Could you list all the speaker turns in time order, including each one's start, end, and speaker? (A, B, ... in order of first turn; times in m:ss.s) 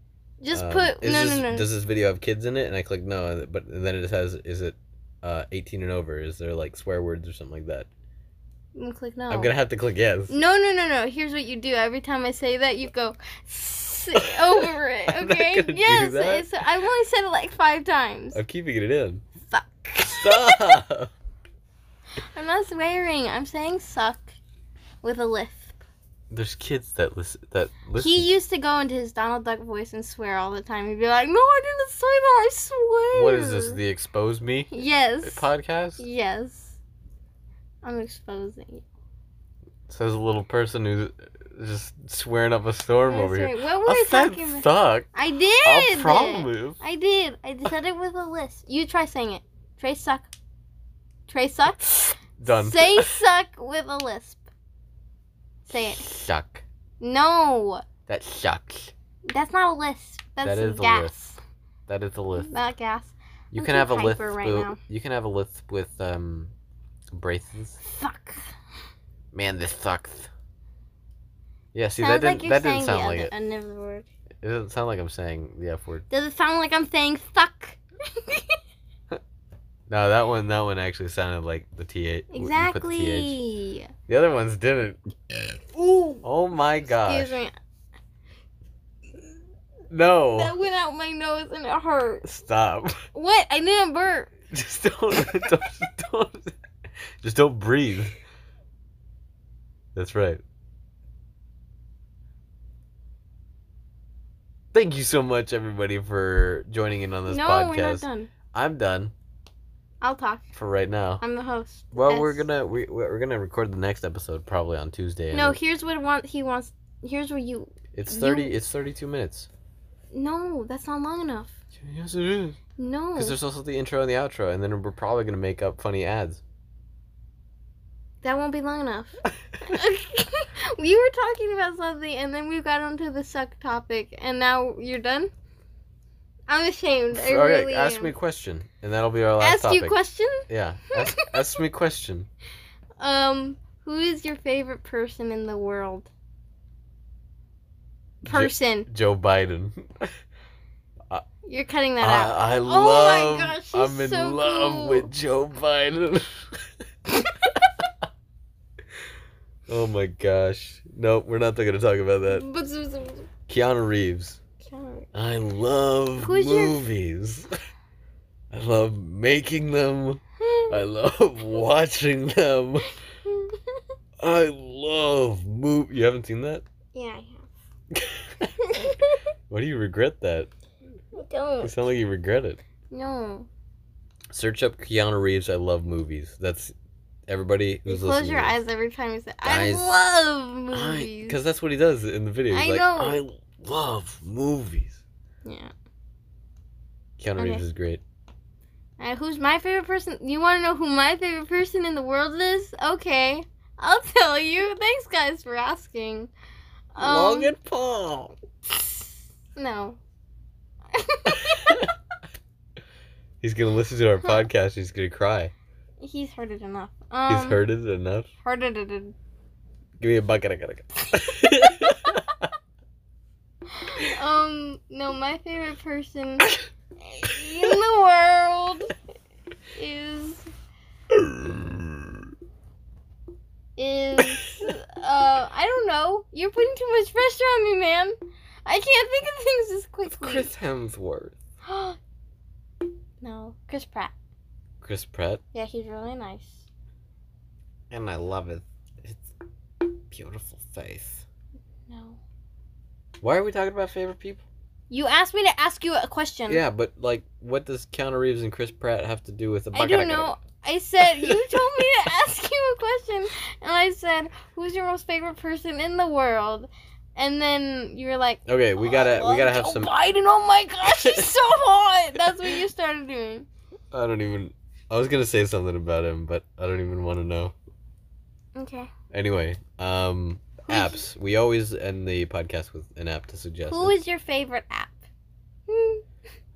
0:00.4-0:01.7 A
0:00.5-0:07.9 B
0:08.7-0:09.5 A
0:09.3-0:10.3 B
0:10.3-0:18.4 A
0:14.2-0:16.5 B
0:18.3-0:19.2 B
0:19.5-0:20.8 A
0:20.2-0:21.1 B
0:22.3-0:24.3 A
0:25.0-0:25.8 A
0:26.3-0:28.3 B
0:28.0-0:33.8 A
0:33.1-0:36.0 B
0:34.7-0:36.8 A
0:37.8-0:38.8 A
0:39.9-0:45.1 B
0:43.1-0:50.3 A
0:45.6-0:46.8 B
0:51.3-0:54.4 A
0:51.8-0:53.2 B
0:55.6-0:56.2 A
0:56.0-0:56.6 B
0:57.0-0:57.8 A
0:58.1-0:58.9 B
0:59.3-1:01.4 A
1:00.4-1:01.1 B
1:01.9-1:02.5 B
1:02.3-1:04.8 A
1:03.5-1:06.5 B
1:07.1-1:07.8 B
1:07.8-1:08.4 A
1:09.3-1:10.3 B
1:11.7-1:13.3 B
1:12.0-1:14.0 A
1:14.4-1:16.0 B
1:16.1-1:18.6 A
1:19.9-1:23.4 B
1:22.3-1:23.9 A
1:24.1-1:25.0 B
1:25.7-1:26.2 A
1:26.2-1:27.4 B
1:27.0-1:27.5 A
1:29.9-1:30.6 B
1:30.3-1:32.3 A
1:32.2-1:33.0 B
1:33.1-1:34.3 A
1:34.5-1:36.6 B
1:37.2-1:38.1 B
1:39.9-1:40.4 B
1:44.7-1:49.1 B
1:47.3-1:48.3 A
1:50.0-1:50.4 A
1:50.5-1:51.2 B
1:51.2-1:52.4 A
1:51.9-1:55.6 B
1:55.3-1:58.5 A
1:57.9-1:59.5 B
2:00.1-2:01.6 A
2:01.8-2:02.6 B
2:02.8-2:03.4 A
2:03.2-2:06.4 B
2:08.2-2:15.3 A
2:16.5-2:18.1 A
2:17.1-2:20.0 B
2:19.4-2:21.3 A
2:20.5-2:22.3 B
2:23.0-2:26.1 A
2:28.2-2:30.1 B
2:28.2-2:28.9 A
2:31.4-2:35.1 A
2:32.0-2:36.5 B
2:39.7-2:42.4 B
2:42.3-2:43.3 A
2:43.5-2:44.4 B
2:44.6-2:45.1 A
2:45.1-2:47.5 B
2:46.2-2:46.8 A
2:48.5-2:52.9 B
2:50.4-2:50.8 A
2:53.2-2:53.8 A
2:54.2-2:56.6 B
2:56.9-2:57.5 A
2:57.9-2:58.5 B
2:58.6-2:59.2 A
2:59.5-3:00.5 B
3:01.1-3:01.8 A
3:01.6-3:02.6 B
3:02.9-3:03.5 A
3:04.3-3:06.7 B
3:07.3-3:08.5 B
3:07.9-3:11.4 A
3:09.4-3:10.0 B
3:10.7-3:15.0 B
3:12.5-3:13.2 A
3:15.4-3:15.7 A
3:17.2-3:18.0 B
3:17.4-3:17.6 A
3:19.0-3:26.3 A
3:26.9-3:27.5 A
3:27.0-3:28.3 B
3:28.7-3:30.0 A
3:30.9-3:31.8 A
3:31.3-3:31.9 B
3:33.4-3:35.5 B
3:36.0-3:37.6 A
3:37.3-3:38.3 B
3:38.4-3:39.1 A
3:40.0-3:42.4 B
3:43.8-3:46.5 A
3:47.0-3:48.9 A
3:49.7-3:50.4 A
3:51.1-3:52.2 B
3:53.8-4:00.5 A
4:00.1-4:01.4 B
4:01.6-4:02.0 A
4:03.2-4:04.1 A
4:04.8-4:05.4 B
4:05.5-4:06.6 A
4:07.9-4:09.3 B
4:10.1-4:11.2 B
4:11.9-4:12.2 A
4:13.2-4:14.4 B
4:14.9-4:16.6 A
4:16.5-4:20.3 B
4:19.7-4:33.4 A
4:21.1-4:21.6 B
4:28.4-4:29.9 B
4:30.8-4:31.3 B
4:33.9-4:37.5 B
4:38.5-4:38.9 A
4:39.1-4:43.9 B
4:40.7-4:41.0 A
4:43.7-4:45.0 A
4:45.7-4:46.0 A